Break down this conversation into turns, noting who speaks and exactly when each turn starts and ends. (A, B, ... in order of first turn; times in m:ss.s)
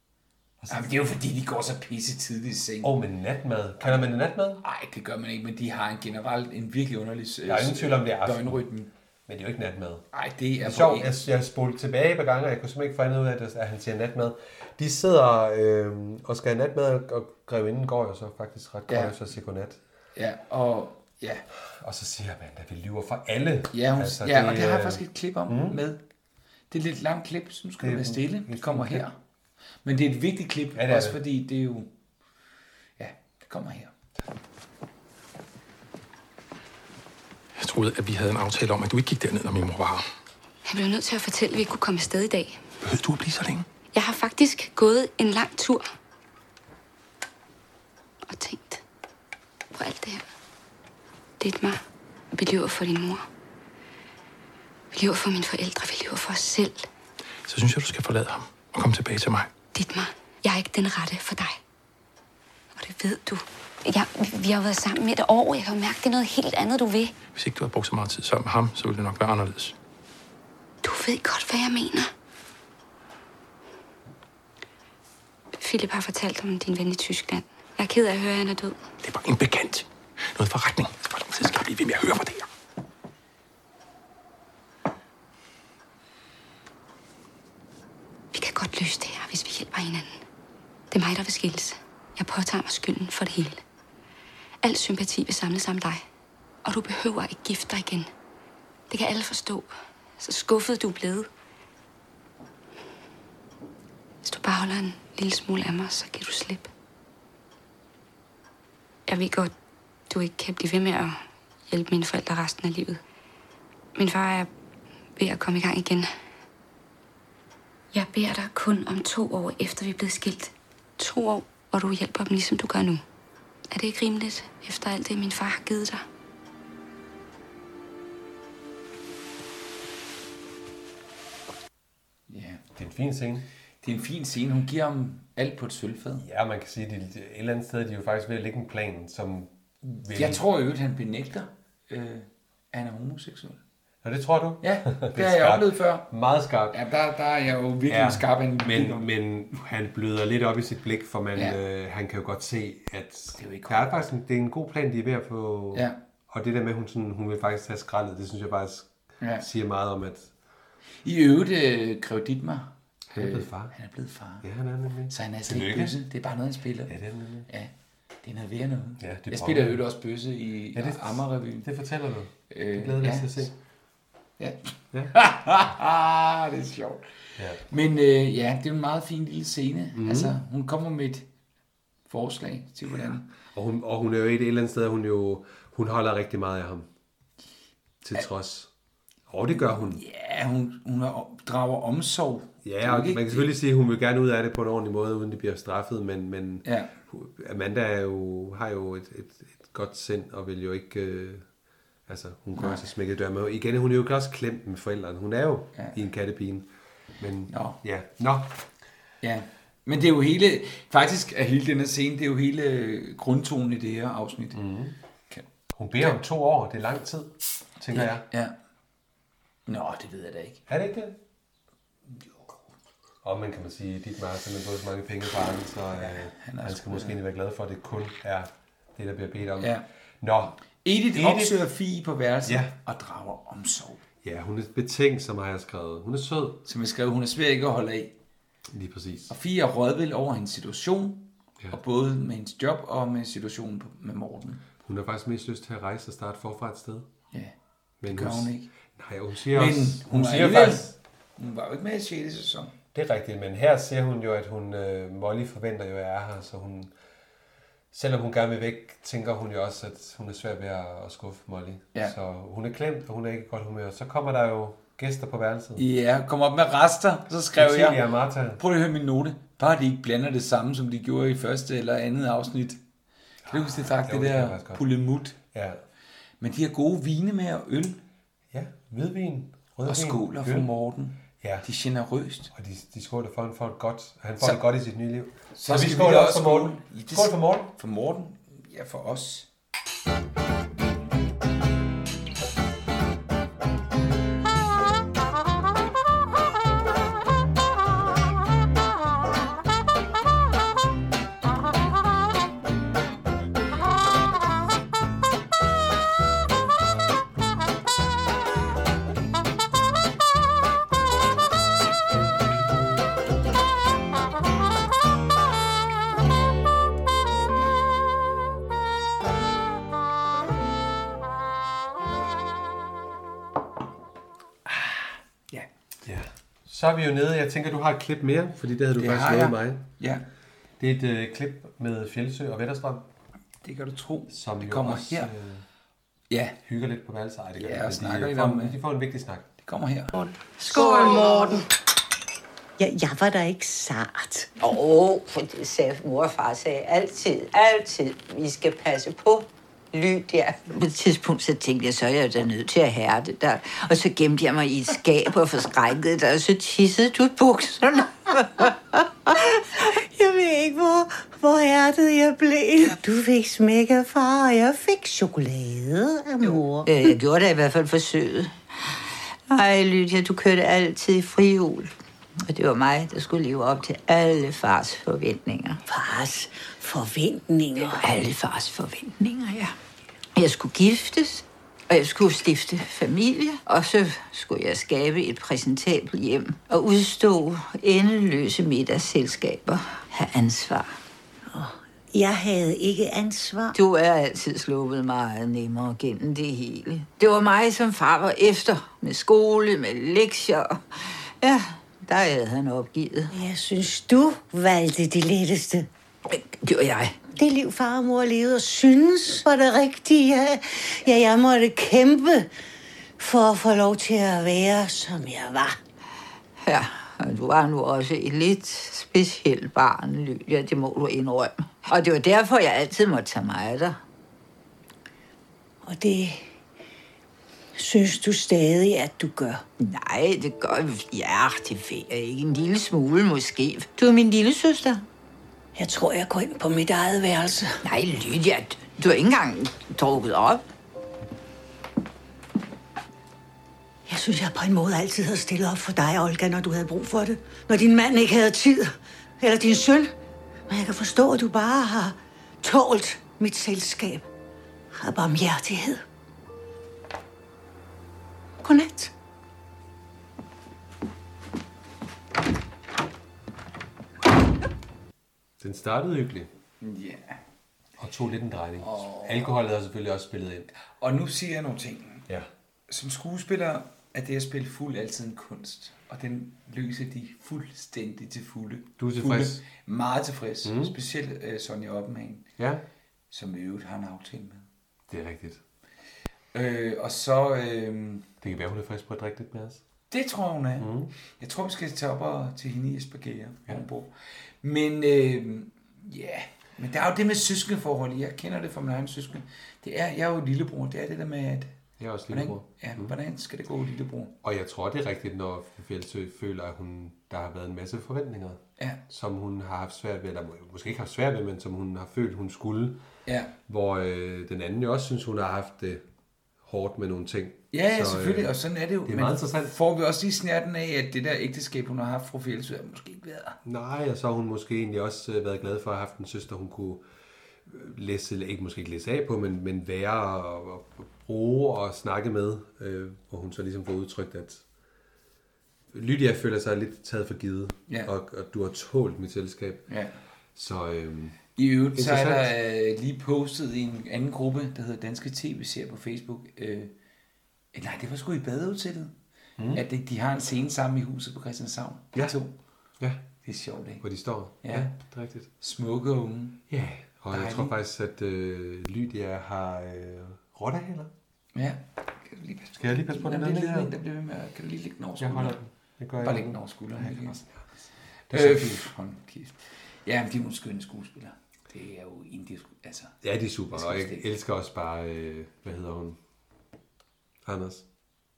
0:00.6-0:01.0 A
0:00.7-0:02.9 B
0:02.8-0:04.6 A
0:03.8-0:08.9 B
0:07.5-0:08.6 A
0:09.3-0:10.0 A
0:10.1-0:11.2 B
0:10.6-0:19.8 A
0:18.9-0:19.2 B
0:20.2-0:21.4 B
0:21.7-0:25.8 A
0:23.7-0:26.0 B
0:26.7-0:29.2 B
0:27.8-0:29.1 A
0:29.8-0:31.9 B
0:30.8-0:31.2 A
0:33.0-0:33.9 B
0:37.6-0:40.0 C
0:40.7-0:42.6 D
0:42.8-0:43.6 C
0:43.9-0:45.9 D
0:48.3-0:48.8 D
0:49.7-0:50.2 D
0:51.4-0:51.8 D
0:52.3-0:53.3 D
0:54.9-0:56.9 D
0:57.5-0:59.5 C
0:59.7-1:01.6 D
1:02.8-1:07.2 D
1:07.3-1:09.7 C
1:10.8-1:12.1 D
1:15.6-1:18.8 D
1:19.0-1:22.5 C
1:28.3-1:30.2 D
1:30.9-1:33.6 D
1:34.6-1:36.0 D
1:36.6-1:38.1 D
1:38.9-1:41.3 D
1:44.2-1:46.7 D
1:49.1-1:49.5 D
1:50.1-1:53.0 D
1:54.0-1:54.5 D
1:55.2-1:56.1 D
1:57.9-2:03.0 D
2:03.7-2:06.0 D
2:12.3-2:12.6 B
2:12.8-2:13.5 A
2:13.8-2:16.2 B
2:16.2-2:20.4 A
2:20.1-2:23.6 B
2:24.0-2:26.8 A
2:24.6-2:26.1 B
2:26.7-2:29.1 B
2:27.9-2:40.3 A
2:33.4-2:34.0 B
2:39.2-2:39.5 B
2:41.0-2:44.5 B
2:43.1-2:43.7 A
2:44.4-2:46.0 A
2:45.1-2:47.0 B
2:46.9-2:47.5 A
2:48.2-2:51.7 B
2:49.0-2:49.8 A
2:50.7-2:53.6 A
2:52.5-2:53.5 B
2:54.4-2:57.1 B
2:57.4-2:57.6 A
2:57.6-3:01.3 B
2:59.9-3:00.4 A
3:02.1-3:03.3 B
3:03.5-3:06.9 A
3:08.0-3:08.7 A
3:09.3-3:10.0 A
3:09.6-3:13.5 B
3:12.6-3:21.4 A
3:16.6-3:17.0 B
3:22.1-3:28.6 A
3:22.6-3:22.9 B
3:27.5-3:27.8 B
3:29.2-3:34.6 B
3:34.5-3:35.0 A
3:35.7-3:38.3 A
3:37.9-3:38.5 B
3:39.7-3:40.6 B
3:40.7-3:41.2 A
3:43.2-3:50.6 A
3:45.9-3:47.2 B
3:49.6-3:49.8 B
3:50.8-3:54.0 B
3:51.1-3:51.7 A
3:52.4-3:52.7 A
3:54.2-3:56.6 A
3:56.7-3:58.1 B
3:58.7-3:59.3 A
3:59.3-4:04.6 B
4:04.8-4:07.1 A
4:08.0-4:11.0 A
4:08.1-4:08.7 B
4:09.5-4:12.8 B
4:12.9-4:16.9 A
4:17.9-4:25.8 A
4:25.8-4:28.1 B
4:27.6-4:28.6 A
4:28.6-4:32.8 B
4:33.4-4:34.9 A
4:33.5-4:35.4 B
4:35.5-4:35.8 A
4:36.4-4:38.0 B
4:38.5-4:40.7 A
4:39.8-4:42.5 B
4:41.4-4:41.7 A
4:42.5-4:47.7 A
4:45.5-4:49.5 B
5:24.7-5:25.7 B
5:26.0-5:29.9 A
5:29.0-5:30.2 B
5:30.8-5:33.1 A
5:33.6-5:35.3 B
5:34.3-5:35.6 A
5:36.3-5:36.6 B
5:36.6-5:39.5 A
5:37.6-5:38.8 B
5:39.6-5:40.1 B
5:40.2-5:41.7 E
5:42.8-5:44.5 E
5:44.6-5:58.7 F
5:59.3-6:07.1 E
6:06.9-6:08.6 F
6:09.5-6:11.9 F
6:12.5-6:15.8 F
6:15.9-6:18.2 E
6:18.0-6:19.7 F
6:20.4-6:31.0 F
6:31.5-6:33.8 E
6:33.8-6:43.3 F
6:43.3-6:45.9 E
6:46.3-6:47.2 F
6:47.3-6:52.5 E
6:53.2-6:55.8 E
6:56.6-7:04.0 F
7:05.8-7:06.5 E
7:07.8-7:09.6 E
7:09.8-7:15.1 F
7:15.8-7:17.8 E
7:17.8-7:20.6 F
7:24.1-7:30.1 E
7:30.7-7:34.3 E
7:34.9-7:36.0 E
7:38.6-7:39.1 E
7:45.6-7:46.5 A
7:46.8-7:47.4 B
7:48.0-7:50.7 A
7:48.8-7:49.5 B
7:51.0-7:52.3 B
7:52.9-8:02.5 B
7:59.0-7:59.6 A
8:00.6-8:01.0 A
8:02.6-8:02.8 A
8:03.3-8:04.7 B
8:05.1-8:05.6 A
8:06.5-8:08.3 B
8:08.4-8:09.8 A
8:10.1-8:14.1 B
8:10.8-8:11.1 A
8:14.6-8:21.7 B
8:22.0-8:23.1 A
8:22.3-8:24.3 B
8:24.4-8:33.0 A
8:33.3-8:33.5 B
8:33.7-8:36.0 A
8:36.6-8:38.5 A
8:37.7-8:43.6 B
8:39.0-8:39.8 A
8:43.6-8:47.0 A
8:47.7-8:54.6 A
8:55.9-8:59.9 A
8:59.9-9:00.2 B
9:00.6-9:02.5 A
9:01.6-9:06.9 B
9:07.7-9:09.1 B
9:09.7-9:12.5 B
9:13.4-9:14.0 B
9:14.0-9:15.5 A
9:14.6-9:14.9 B
9:15.6-9:16.6 B
9:16.7-9:21.1 A
9:17.3-9:17.8 B
9:21.6-9:25.6 B
9:22.8-9:23.9 A
9:25.2-9:27.6 A
9:26.2-9:27.4 B
9:28.3-9:28.9 A
9:28.3-9:33.2 B
9:33.2-9:36.2 A
9:33.7-9:34.3 B
9:37.4-9:37.8 A